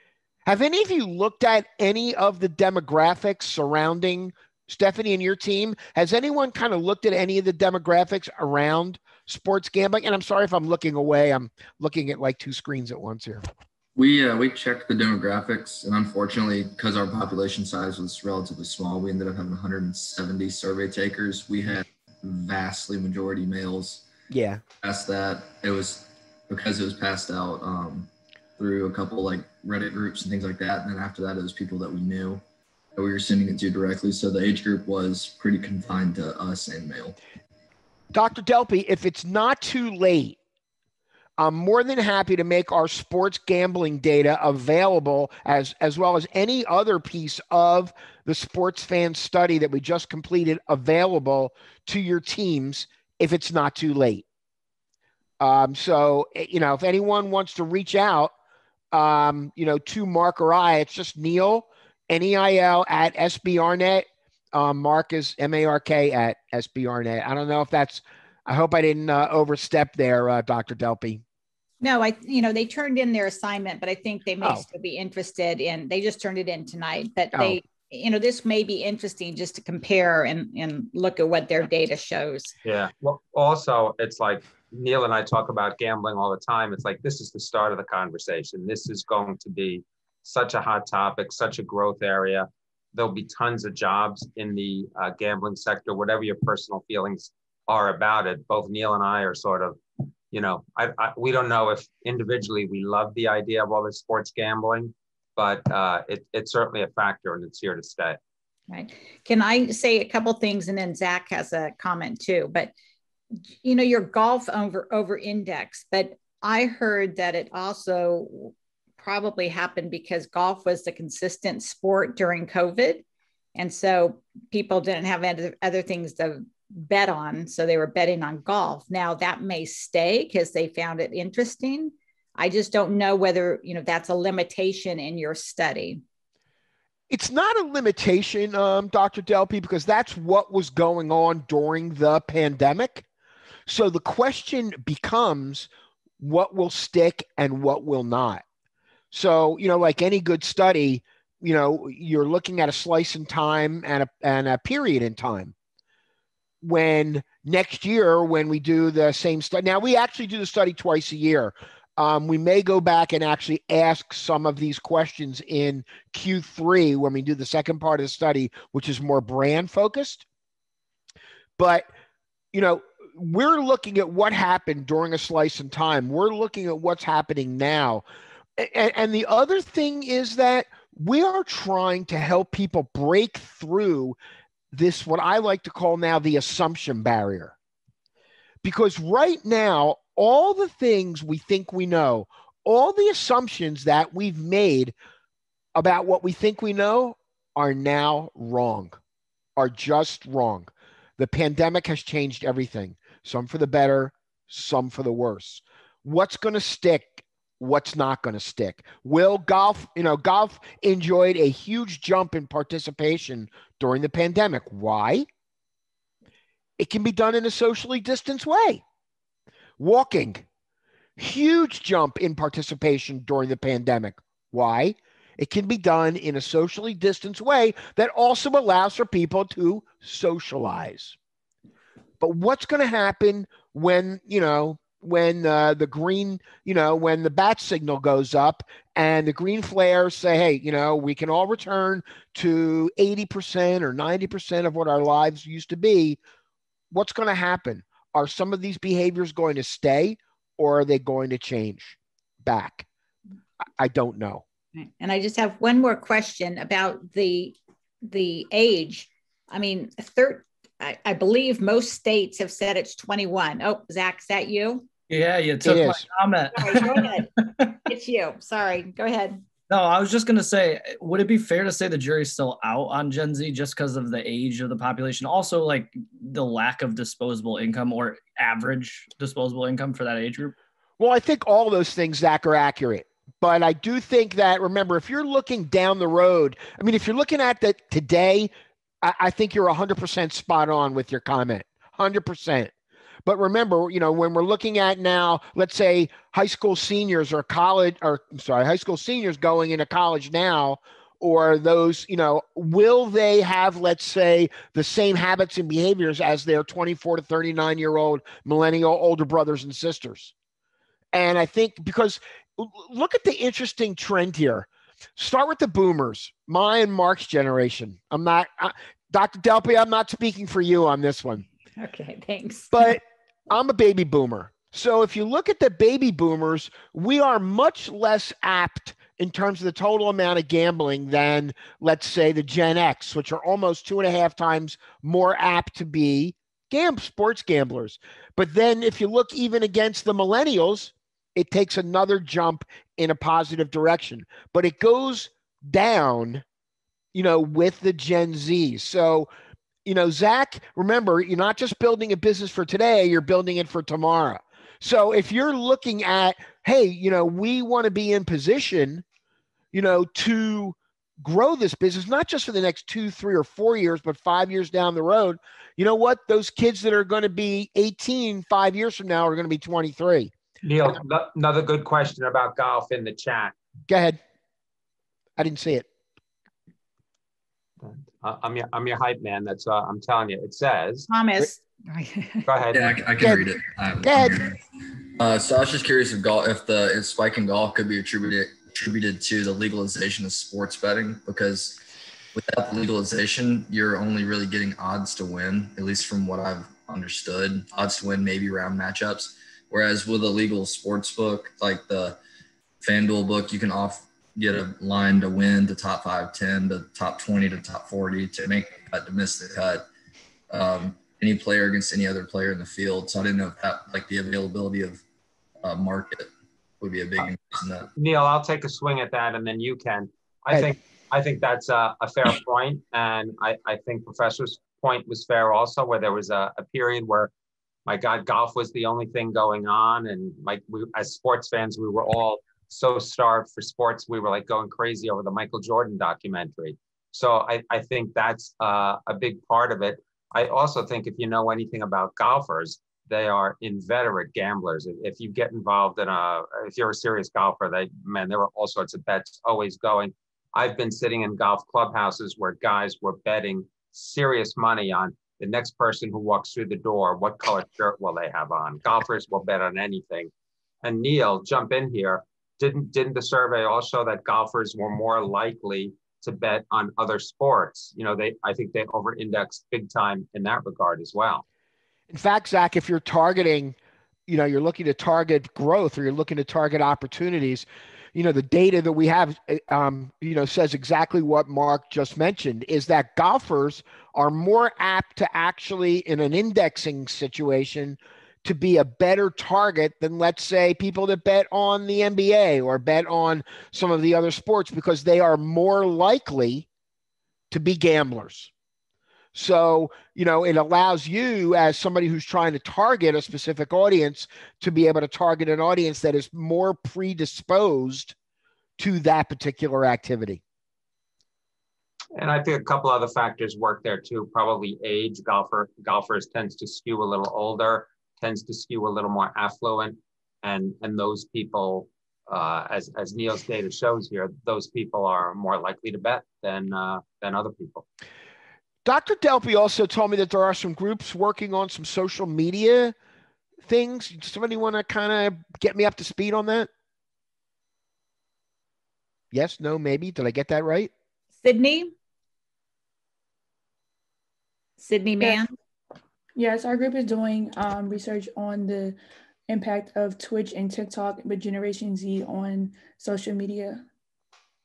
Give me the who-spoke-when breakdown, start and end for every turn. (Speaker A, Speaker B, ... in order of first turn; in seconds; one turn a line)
Speaker A: 0.5-13.4
Speaker B: 13.9-24.1
Speaker A: 24.3-24.6
Speaker B: 24.8-32.4
Speaker B: 33.0-37.2
Speaker A: 38.1-40.4
Speaker A: 41.4-54.2
Speaker A: 55.4-58.3
Speaker A: 58.9-71.2
Speaker C: 71.8-82.5
Speaker A: 77.3-77.6
Speaker D: 82.7-99.8
Speaker D: 100.3-108.2
Speaker C: 108.7-112.7
Speaker C: 113.6-123.0
Speaker C: 123.6-136.0
Speaker A: 137.1-143.1
Speaker A: 143.7-145.7
Speaker A: 146.2-148.4
Speaker A: 149.1-155.5
Speaker A: 156.6-170.2
Speaker A: 171.6-171.9
Speaker A: 172.5-178.0
Speaker A: 178.6-184.2
Speaker A: 184.7-187.6
Speaker A: 188.6-194.9
Speaker A: 195.8-199.0
Speaker A: 199.6-215.3
Speaker A: 216.8-218.8
Speaker A: 219.8-220.4
Speaker A: 221.2-231.2
Speaker A: 232.2-246.2
Speaker A: 246.9-252.9
Speaker A: 253.8-254.4
Speaker C: 254.8-264.9
Speaker E: 265.1-267.2
Speaker A: 265.6-266.1
Speaker C: 266.5-267.3
Speaker C: 267.9-269.4
Speaker E: 269.7-280.5
Speaker A: 281.0-288.5
Speaker A: 289.0-292.7
Speaker A: 293.2-310.3
Speaker A: 311.1-321.4
Speaker C: 321.8-322.8
Speaker A: 322.7-346.4
Speaker A: 347.1-349.3
Speaker A: 349.9-359.0
Speaker A: 359.7-370.3
Speaker D: 370.6-373.6
Speaker A: 373.9-374.2
Speaker A: 375.4-375.9
Speaker D: 377.8-381.1
Speaker C: 381.1-382.5
Speaker D: 382.5-382.9
Speaker B: 382.7-384.6
Speaker A: 383.2-383.5
Speaker A: 384.0-384.4
Speaker B: 385.2-391.8
Speaker B: 392.3-402.2
Speaker B: 402.8-409.9
Speaker B: 410.5-415.0
Speaker B: 415.6-417.9
Speaker D: 418.0-427.3
Speaker D: 427.9-460.3
Speaker D: 460.8-471.4
Speaker A: 472.1-473.8
Speaker A: 474.3-496.7
Speaker A: 497.5-498.5
Speaker A: 499.3-508.1
Speaker A: 508.8-510.4
Speaker D: 512.1-527.9
Speaker A: 528.9-533.0
Speaker A: 533.6-536.7
Speaker A: 539.3-540.9
Speaker C: 541.4-541.9
Speaker C: 544.8-545.5
Speaker F: 546.4-549.0
Speaker F: 549.5-553.9